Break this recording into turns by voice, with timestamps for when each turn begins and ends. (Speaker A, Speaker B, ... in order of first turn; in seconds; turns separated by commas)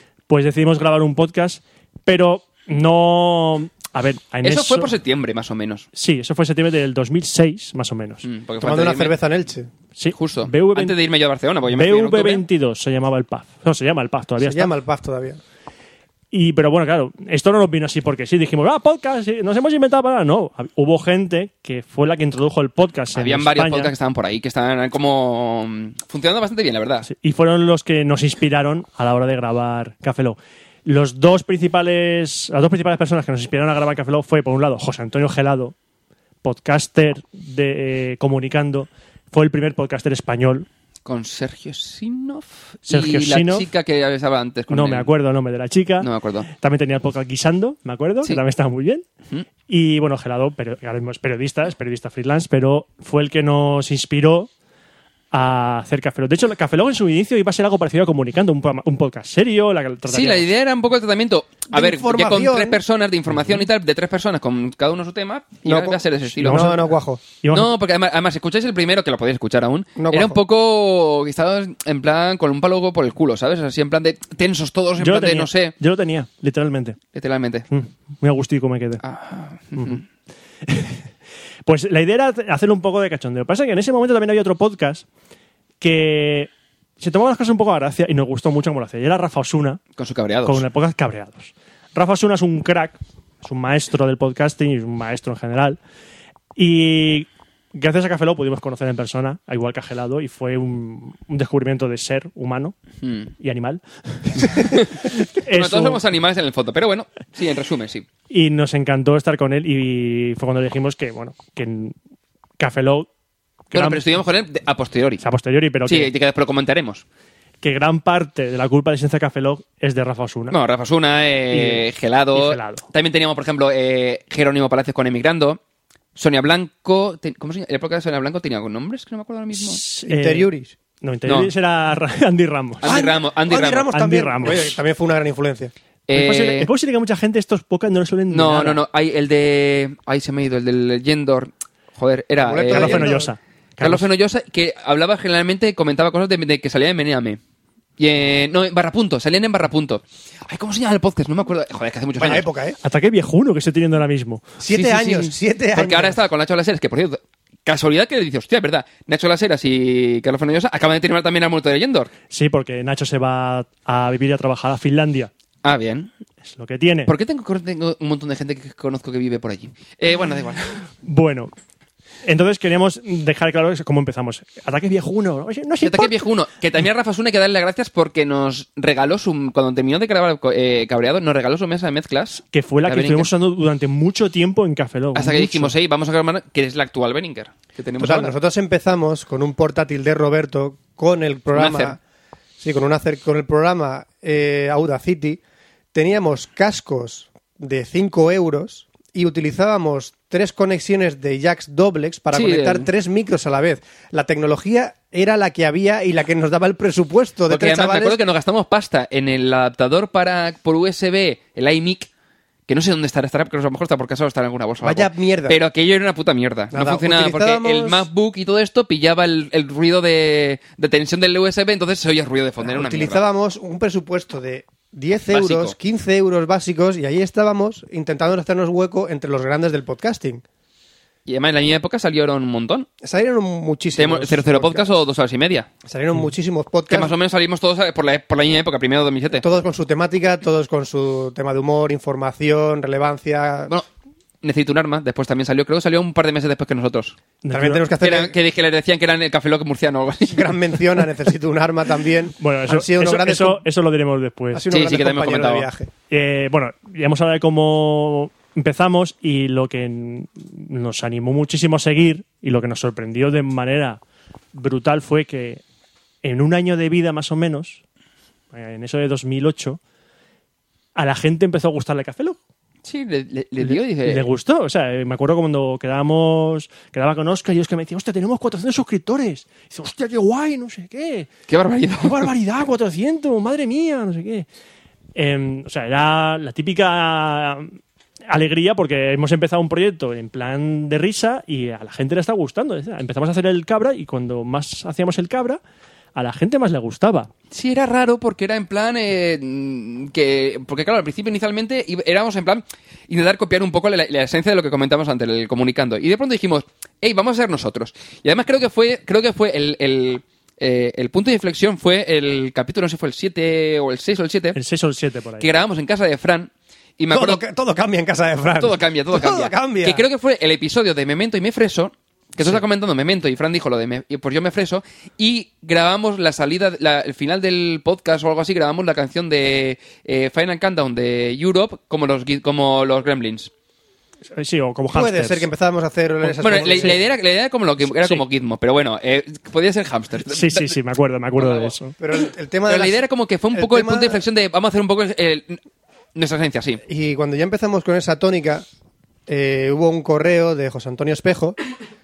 Speaker A: 0.3-4.9, Speaker B: 4.4-5.8, Speaker A: 5.9-8.3, Speaker B: 8.2-9.2, Speaker C: 8.6-9.7, Speaker A: 9.9-11.0, Speaker B: 10.2-12.4, Speaker A: 11.7-14.7, Speaker C: 14.4-15.4, Speaker A: 16.3-23.9, Speaker B: 23.1-27.1, Speaker A: 27.0-35.7, Speaker A: 36.4-40.7, Speaker B: 41.0-45.1, Speaker A: 42.9-43.7, Speaker A: 44.7-49.0, Speaker B: 46.0-46.5, Speaker A: 49.7-54.5, Speaker A: 55.3-60.5, Speaker B: 60.1-66.8, Speaker C: 61.7-62.8, Speaker A: 63.3-63.6, Speaker C: 65.6-67.2, Speaker A: 66.4-66.8, Speaker A: 67.4-67.7, Speaker B: 67.5-75.7, Speaker C: 70.0-70.4, Speaker A: 75.0-77.0, Speaker B: 77.1-77.6, Speaker A: 77.7-79.0, Speaker B: 79.0-80.0, Speaker A: 80.6-81.0, Speaker A: 81.6-85.0, Speaker A: 85.8-89.8, Speaker B: 90.0-90.6, Speaker A: 90.4-95.8, Speaker A: 96.5-102.8, Speaker B: 103.0-103.3, Speaker A: 103.4-106.0, Speaker B: 104.5-108.0, Speaker A: 108.3-112.0, Speaker A: 112.6-113.1, Speaker A: 113.7-114.0, Speaker B: 113.7-115.2, Speaker A: 115.2-116.1, Speaker B: 115.8-117.0, Speaker A: 117.6-120.5, Speaker B: 120.5-125.6, Speaker A: 121.5-121.8, Speaker A: 122.3-122.8, Speaker B: 126.2-129.8, Speaker A: 129.7-130.5, Speaker C: 130.0-130.8, Speaker A: 131.0-132.9, Speaker B: 132.8-133.9, Speaker C: 132.8-135.7, Speaker A: 133.9-134.8, Speaker B: 136.1-136.7, Speaker A: 136.1-138.8, Speaker B: 138.3-143.2, Speaker C: 142.4-143.3, Speaker A: 142.7-144.0, Speaker B: 143.8-147.4, Speaker B: 148.0-152.4, Speaker C: 152.2-152.8, Speaker A: 152.8-155.3, Speaker C: 154.6-156.2, Speaker B: 155.7-162.1, Speaker A: 162.3-165.3, Speaker B: 165.6-166.1, Speaker A: 166.4-167.1, Speaker B: 167.1-170.8, Speaker A: 171.0-171.5, Speaker A: 172.2-176.1, Speaker B: 175.8-183.3, Speaker A: 182.5-185.7, Speaker B: 185.1-188.3, Speaker C: 188.0-192.0, Speaker B: 191.5-191.9, Speaker C: 192.6-195.4, Speaker C: 195.9-208.2, Speaker B: 202.3-202.9, Speaker B: 207.5-212.1, Speaker B: 212.7-223.2, Speaker C: 214.8-215.6, Speaker C: 216.7-218.1, Speaker C: 222.6-230.4, Speaker B: 225.3-225.7, Speaker B: 231.2-232.9, Speaker C: 233.0-234.9, Speaker B: 233.9-235.7, Speaker C: 235.8-237.1, Speaker B: 236.9-239.4, Speaker C: 239.4-243.7, Speaker B: 244.4-247.2, Speaker A: 247.4-247.8, Speaker C: 247.5-248.3, Speaker B: 248.0-250.6, Speaker C: 250.2-253.6, Speaker A: 252.4-254.7, Speaker C: 254.5-255.9, Speaker B: 254.7-255.7, Speaker A: 256.1-264.0, Speaker A: 264.5-265.6, Speaker A: 266.2-267.8, Speaker A: 268.5-269.8, Speaker A: 270.9-272.4, Speaker B: 272.8-274.3, Speaker A: 273.6-281.3, Speaker B: 281.5-282.3, Speaker A: 282.0-284.4, Speaker A: 285.1-287.8, Speaker A: 288.3-295.6, Speaker A: 296.1-297.3, Speaker B: 297.5-314.6, Speaker A: 314.5-315.5, Speaker B: 315.4-317.4, Speaker C: 317.1-320.0, Speaker B: 318.6-333.5, Speaker A: 334.3-335.5, Speaker C: 334.9-337.0, Speaker B: 336.3-340.8, Speaker A: 340.3-341.9, Speaker B: 341.4-345.6, Speaker C: 342.0-343.0, Speaker C: 343.5-344.2, Speaker B: 346.1-346.8, Speaker C: 346.8-348.6, Speaker C: 349.3-351.6